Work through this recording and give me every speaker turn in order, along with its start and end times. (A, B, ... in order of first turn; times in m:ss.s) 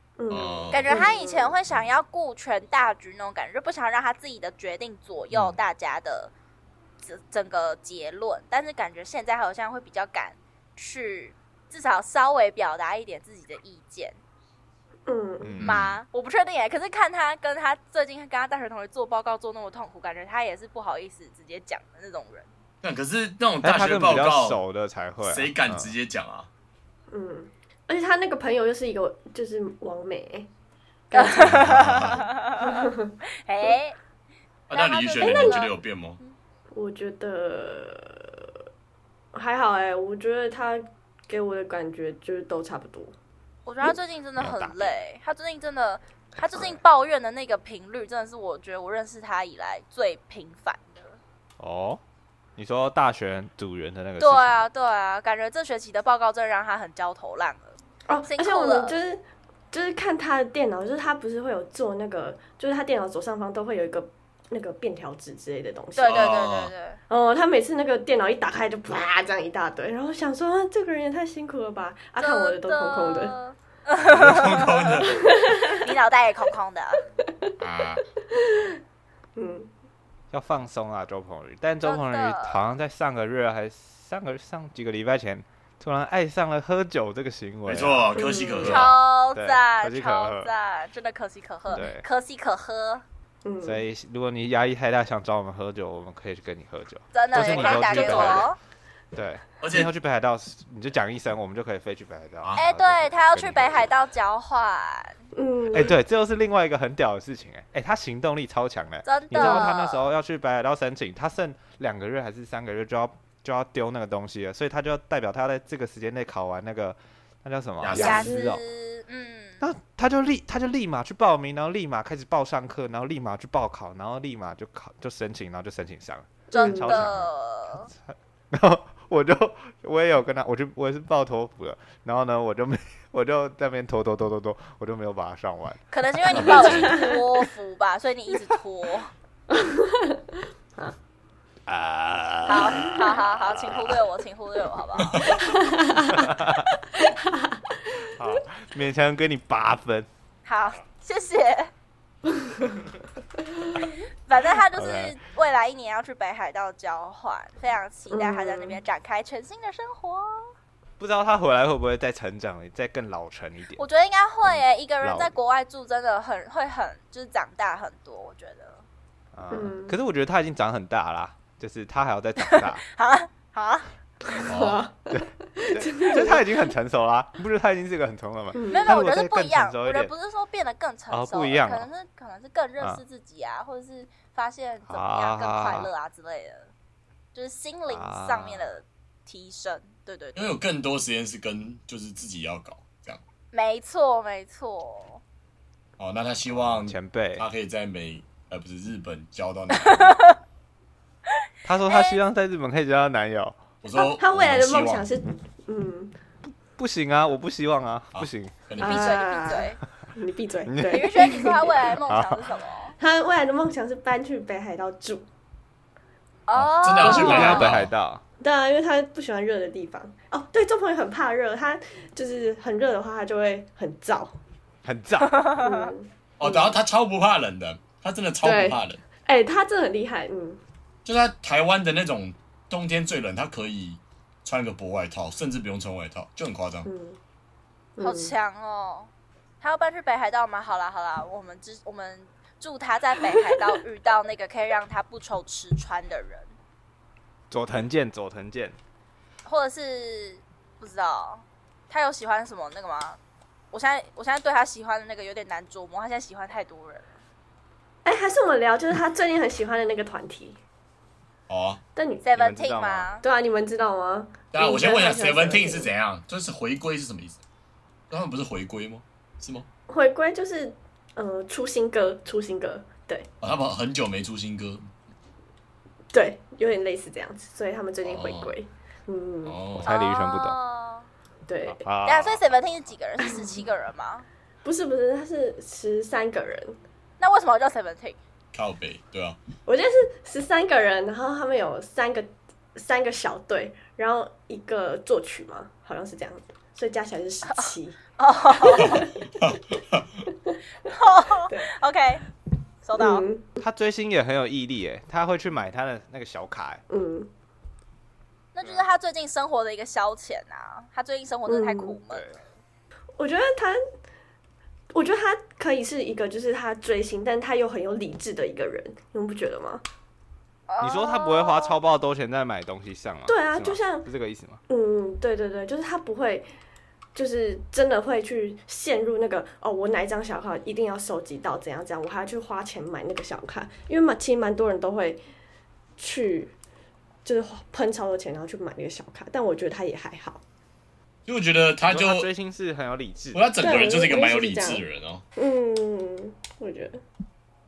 0:00.2-0:01.5 A
0:00.3-0:01.0 B
0:00.7-0:06.3 C
0:05.3-0:05.6 D
0:07.0-0:14.2 C
0:15.1-0:15.6 A
0:15.4-0:15.8 D
0:15.6-0:15.9 B
0:15.6-0:22.5 C
0:22.8-0:24.6 B
0:23.6-0:25.9 D
0:25.2-0:26.5 B
0:27.1-0:30.5 A
0:31.1-0:31.6 A
0:31.1-0:34.0 C
0:31.4-0:32.3 B
0:32.6-0:33.2 A
0:34.7-0:36.2 B
0:34.7-0:36.4 C
0:35.2-0:35.6 A
0:36.7-0:38.5 A
0:39.3-0:43.1 A
0:43.6-0:51.2 C
0:44.4-0:45.0 D
0:46.5-0:46.8 D
0:51.6-0:52.0 D
0:52.6-0:54.6 D
0:54.2-0:57.8 C
0:58.1-1:06.2 A
0:58.3-0:59.0 C
1:06.0-1:07.0 C
1:06.1-1:06.7 B
1:07.1-1:13.4 A
1:12.2-1:15.0 C
1:14.0-1:15.2 B
1:15.0-1:15.9 A
1:15.6-1:17.0 C
1:17.4-1:18.7 A
1:17.6-1:18.0 B
1:19.4-1:19.7 A
1:20.3-1:28.1 D
1:21.8-1:22.6 C
1:27.6-1:29.0 B
1:28.1-1:28.9 A
1:28.6-1:33.0 C
1:29.3-1:30.5 D
1:31.7-1:32.0 D
1:33.4-1:33.8 A
1:33.6-1:38.5 D
1:37.1-1:38.6 C
1:37.3-1:38.5 B
1:39.1-1:43.9 D
1:39.6-1:39.9 B
1:42.6-1:45.2 C
1:45.3-1:46.0 A
1:45.7-1:58.6 D
1:49.0-1:50.0 C
1:57.8-1:58.3 B
1:57.9-1:59.6 C
1:58.0-1:58.5 A
1:59.6-2:16.9 D
2:06.5-2:07.9 C
2:06.5-2:07.1 A
2:15.9-2:19.1 C
2:16.3-2:17.0 B
2:16.5-2:17.4 A
2:19.5-2:20.2 A
2:21.7-2:24.0 D
2:22.4-2:25.7 C
2:25.0-2:25.4 B
2:25.3-2:28.4 A
2:26.1-2:26.7 D
2:28.0-2:30.1 D
2:30.4-2:31.7 C
2:34.3-2:40.5 C
2:34.7-2:35.2 D
2:38.1-2:38.8 A
2:41.0-2:43.8 D
2:43.8-2:48.8 C
2:44.5-2:45.3 D
2:49.3-2:52.8 D
2:49.5-2:50.0 A
2:52.4-2:54.4 C
2:54.4-2:56.5 A
2:54.5-2:54.8 B
2:55.1-3:00.1 D
2:58.6-2:59.0 A
2:58.7-3:06.7 C
3:01.1-3:01.9 D
3:04.9-3:05.9 D
3:07.3-3:10.5 C
3:07.9-3:08.7 D
3:10.4-3:13.2 B
3:13.5-3:15.2 C
3:16.0-3:20.2 B
3:16.5-3:17.4 D
3:19.9-3:20.4 C
3:21.6-3:23.6 D
3:21.9-3:22.2 C
3:23.8-3:25.1 B
3:24.0-3:26.1 A
3:26.4-3:28.6 D
3:28.1-3:29.2 B
3:28.8-3:32.0 A
3:28.8-3:29.8 C
3:30.7-3:31.4 D
3:30.8-3:33.0 C
3:32.0-3:32.4 D
3:33.0-3:35.2 A
3:36.5-3:37.7 C
3:36.5-3:37.9 B
3:37.0-3:38.2 D
3:37.0-3:37.6 A
3:38.4-3:44.4 A
3:44.8-3:45.5 D
3:45.4-3:45.9 C
3:45.6-3:46.8 A
3:46.4-3:49.0 B
3:48.4-3:50.6 A
3:51.0-3:56.9 B
3:56.8-3:57.2 A
3:58.0-3:58.3 A
3:58.0-3:59.1 C
3:59.6-4:06.5 C
4:07.5-4:08.8 D
4:09.4-4:13.2 C
4:13.7-4:17.2 C
4:18.0-4:20.6 A
4:21.5-4:21.8 B
4:22.0-4:22.2 A
4:22.2-4:23.2 C
4:22.3-4:23.1 D
4:23.2-4:25.9 A
4:24.5-4:27.4 B
4:28.1-4:29.7 B
4:29.9-4:33.3 A
4:33.4-4:34.9 B
4:36.1-4:39.6 A
4:38.0-4:38.5 B
4:39.4-4:39.9 B
4:39.8-4:40.6 D
4:39.8-4:41.1 C
4:41.4-4:41.8 A
4:41.6-4:42.4 D
4:42.0-4:44.2 C
4:43.2-4:43.7 A
4:44.6-4:46.8 A
4:47.2-4:48.2 C
4:48.5-4:49.4 B
4:49.6-4:58.0 A
4:57.4-4:59.1 C
4:58.6-4:59.3 A
4:59.4-5:00.1 B
5:00.9-5:02.2 C
5:01.4-5:01.7 A
5:02.8-5:03.2 C
5:03.0-5:03.5 A
5:03.6-5:06.8 D
5:06.9-5:07.3 A
5:08.5-5:12.2 C
5:08.6-5:08.9 D
5:11.5-5:12.0 A
5:12.1-5:12.4 D
5:13.2-5:13.8 A
5:14.9-5:19.8 A
5:20.7-5:21.7 C
5:20.8-5:24.6 D
5:23.3-5:24.1 A
5:24.7-5:26.5 A
5:27.1-5:35.2 A
5:36.0-5:36.6 A
5:37.2-5:40.4 A
5:41.2-5:42.3 B
5:41.9-5:43.5 D
5:43.3-5:45.2 B
5:43.6-5:44.8 A
5:45.4-5:47.0 A